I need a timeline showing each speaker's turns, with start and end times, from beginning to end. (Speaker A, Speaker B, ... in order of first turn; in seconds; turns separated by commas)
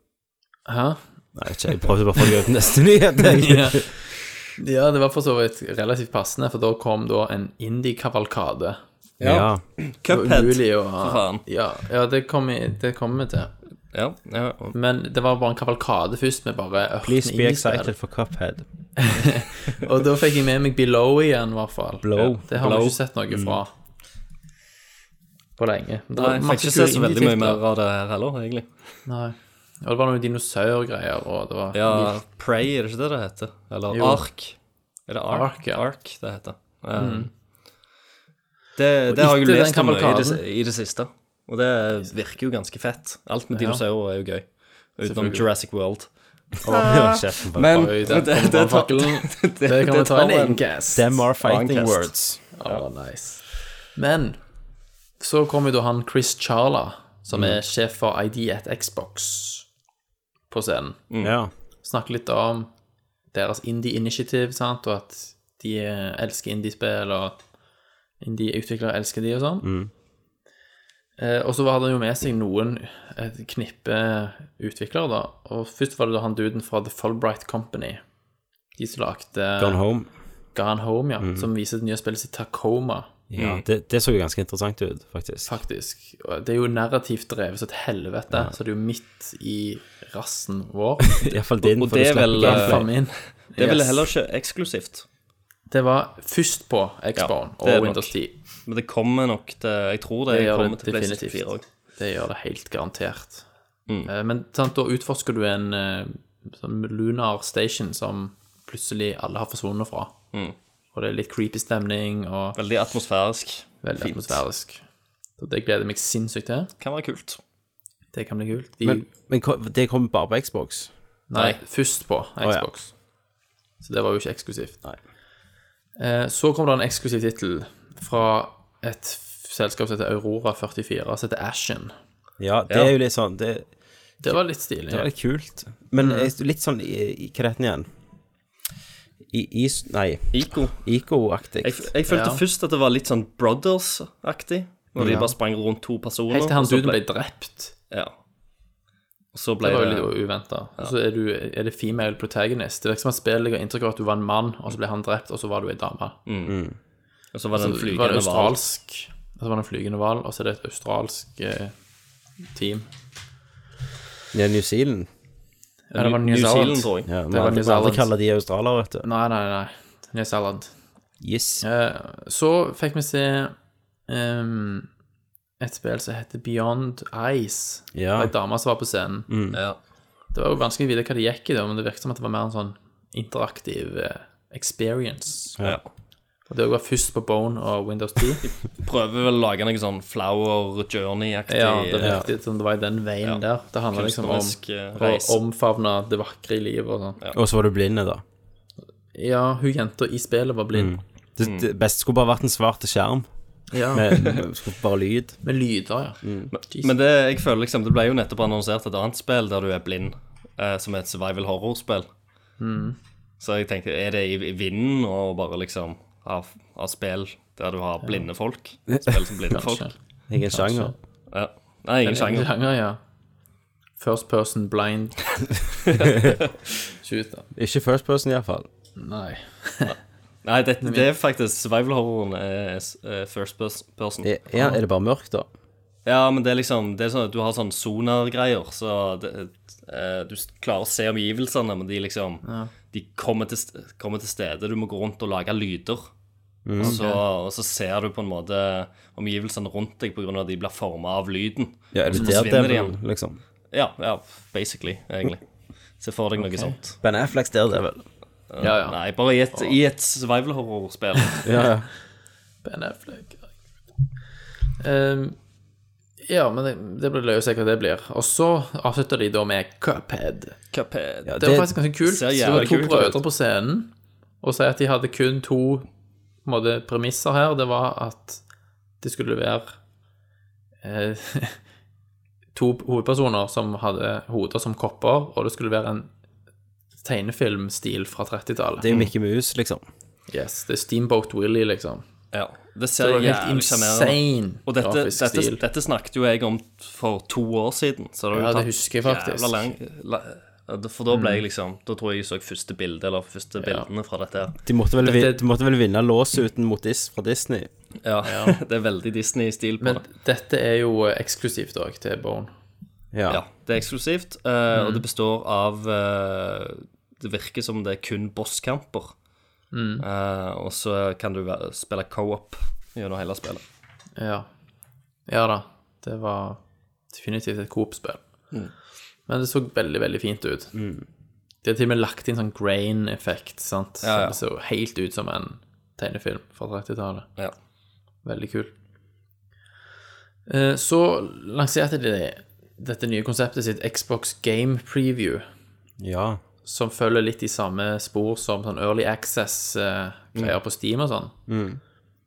Speaker A: 0.7-1.0, Speaker B: 1.4-3.9, Speaker A: 3.2-4.0, Speaker A: 4.6-8.8, Speaker C: 9.2-11.4, Speaker B: 9.2-9.6, Speaker A: 10.1-13.5, Speaker C: 13.9-14.7, Speaker A: 14.7-17.9, Speaker B: 17.0-18.6, Speaker A: 19.0-23.7, Speaker B: 22.0-22.4, Speaker C: 22.1-23.0, Speaker B: 23.3-23.6, Speaker A: 25.6-27.6, Speaker C: 26.1-28.7, Speaker A: 29.1-32.2, Speaker C: 31.7-34.5, Speaker A: 33.9-34.2, Speaker C: 35.1-37.3, Speaker A: 35.3-35.8, Speaker A: 36.9-37.3, Speaker C: 38.8-50.6, Speaker A: 39.1-40.4, Speaker A: 43.5-43.8, Speaker A: 45.0-45.4, Speaker A: 46.6-47.0, Speaker B: 46.7-47.9, Speaker A: 47.6-51.2, Speaker B: 50.9-52.4, Speaker C: 51.4-52.8, Speaker A: 52.5-54.4, Speaker A: 55.2-59.6, Speaker B: 57.3-57.6, Speaker A: 60.5-61.0, Speaker B: 61.2-61.5, Speaker A: 61.8-62.7, Speaker A: 63.3-67.3, Speaker A: 68.2-69.7, Speaker B: 69.6-69.9, Speaker A: 71.2-78.0, Speaker A: 78.8-79.8, Speaker B: 79.6-80.1, Speaker A: 80.5-83.1, Speaker B: 81.2-81.5, Speaker B: 83.3-85.5, Speaker C: 83.3-83.6, Speaker A: 85.5-91.4, Speaker B: 91.2-92.9, Speaker C: 91.6-95.0, Speaker A: 92.3-94.0, Speaker A: 95.7-98.3, Speaker C: 97.2-98.1, Speaker C: 98.6-101.6, Speaker A: 100.3-103.4, Speaker A: 104.0-110.1, Speaker A: 110.9-112.6, Speaker C: 112.5-114.4, Speaker A: 113.8-114.8, Speaker A: 115.4-116.7, Speaker C: 116.8-117.4, Speaker A: 118.1-119.1, Speaker B: 118.8-120.9, Speaker A: 121.3-122.9, Speaker C: 121.3-121.6, Speaker A: 123.8-124.8, Speaker A: 126.0-131.9, Speaker B: 132.4-133.7, Speaker A: 134.2-135.1, Speaker B: 134.9-137.9, Speaker A: 136.0-136.3, Speaker B: 139.3-141.9, Speaker C: 140.3-140.8, Speaker C: 141.6-147.0, Speaker A: 142.1-142.4, Speaker B: 145.0-145.3, Speaker A: 146.3-147.7, Speaker C: 147.9-148.2, Speaker C: 149.3-150.1, Speaker A: 149.6-156.2, Speaker C: 156.2-156.5, Speaker B: 156.5-156.8, Speaker C: 157.3-158.6, Speaker A: 157.5-161.7, Speaker A: 162.5-162.9, Speaker B: 164.3-165.1, Speaker A: 165.9-168.1, Speaker C: 165.9-167.1, Speaker B: 167.1-169.1, Speaker A: 169.0-170.7, Speaker B: 171.2-171.6, Speaker A: 171.6-173.5, Speaker A: 174.1-174.9, Speaker A: 175.6-179.3, Speaker B: 177.9-178.3, Speaker B: 179.3-179.6, Speaker C: 179.5-179.8, Speaker A: 180.3-185.6, Speaker A: 186.5-188.4, Speaker C: 188.4-192.2, Speaker A: 191.5-197.2, Speaker C: 193.9-195.4, Speaker B: 197.3-198.2, Speaker A: 199.1-201.0, Speaker B: 200.7-203.3, Speaker A: 203.7-204.4, Speaker B: 203.9-205.4, Speaker A: 205.4-206.9, Speaker B: 206.2-206.5, Speaker C: 206.5-212.1, Speaker A: 212.6-213.0, Speaker C: 213.4-219.9, Speaker A: 219.5-219.9, Speaker B: 220.3-220.9, Speaker A: 220.4-220.9, Speaker C: 221.3-222.5, Speaker A: 222.0-223.0, Speaker A: 224.0-225.2, Speaker C: 225.9-226.4, Speaker A: 227.0-227.5, Speaker B: 227.5-228.7, Speaker A: 229.0-229.9, Speaker C: 230.4-234.3, Speaker A: 230.8-231.1, Speaker B: 234.2-235.5, Speaker A: 234.5-234.8, Speaker C: 236.1-246.1, Speaker A: 242.4-242.7, Speaker B: 246.7-247.0, Speaker A: 246.8-247.2, Speaker C: 246.8-253.0, Speaker B: 251.9-253.4, Speaker A: 252.1-252.4, Speaker C: 253.7-255.4, Speaker C: 256.0-257.0, Speaker B: 257.0-258.1, Speaker C: 258.5-261.5, Speaker A: 258.6-258.9, Speaker B: 261.4-261.9, Speaker A: 262.6-263.4, Speaker A: 264.8-265.4, Speaker A: 266.2-270.5, Speaker C: 270.7-271.5, Speaker B: 271.2-271.7, Speaker A: 271.4-273.9, Speaker C: 272.0-273.2, Speaker B: 272.4-273.1, Speaker A: 274.4-275.9, Speaker A: 276.4-278.4, Speaker A: 279.0-279.8, Speaker A: 280.8-281.6, Speaker A: 282.5-286.1, Speaker A: 287.0-288.9, Speaker B: 288.8-289.8, Speaker A: 290.3-292.0, Speaker C: 292.3-304.5, Speaker A: 293.0-295.6, Speaker A: 298.3-299.7, Speaker A: 301.1-301.4, Speaker A: 303.6-303.9, Speaker B: 304.6-307.7, Speaker A: 305.0-305.4, Speaker C: 308.0-310.0, Speaker A: 308.2-308.6, Speaker A: 309.8-312.5, Speaker B: 313.1-313.4, Speaker C: 313.3-319.1, Speaker A: 314.7-315.0, Speaker A: 319.7-320.0, Speaker C: 320.0-323.6, Speaker A: 324.2-324.5, Speaker A: 325.3-326.6, Speaker A: 327.1-328.2, Speaker A: 329.3-330.7, Speaker B: 330.7-331.0, Speaker A: 331.6-337.3, Speaker C: 334.0-334.4, Speaker A: 338.2-338.7, Speaker A: 340.5-345.5, Speaker B: 346.0-346.4, Speaker A: 346.6-351.3, Speaker B: 351.5-351.8